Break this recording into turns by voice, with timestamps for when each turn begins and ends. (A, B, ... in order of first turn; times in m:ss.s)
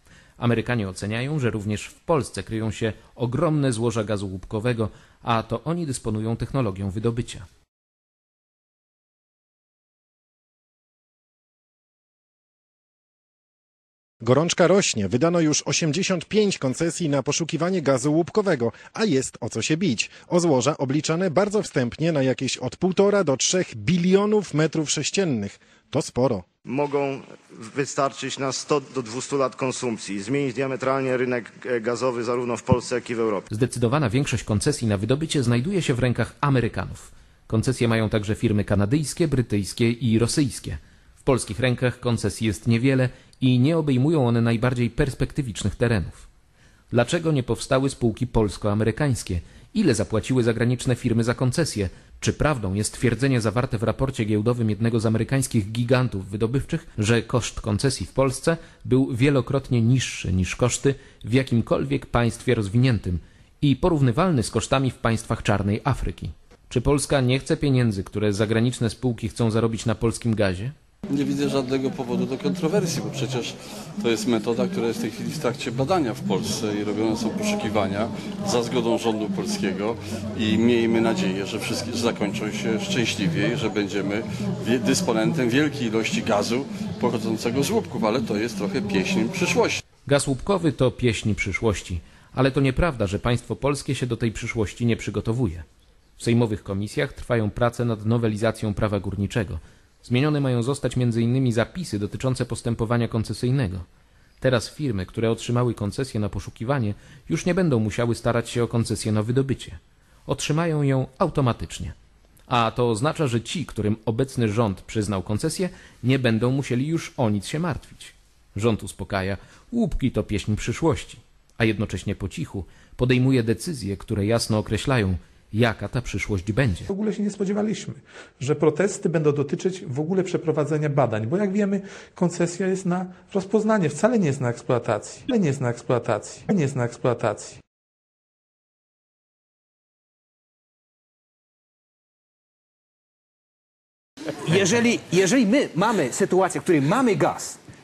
0:00.4-0:07.4 A
0:14.3-0:26.4 B
0:26.6-0:33.4 C
0:33.5-0:46.2 A
0:46.9-1:10.7 A
1:11.1-1:29.8 D
1:30.0-1:35.6 A
1:36.2-1:43.8 A
1:44.4-1:51.9 A
1:52.5-2:06.9 A
2:06.9-2:17.6 E
2:24.4-2:27.6 F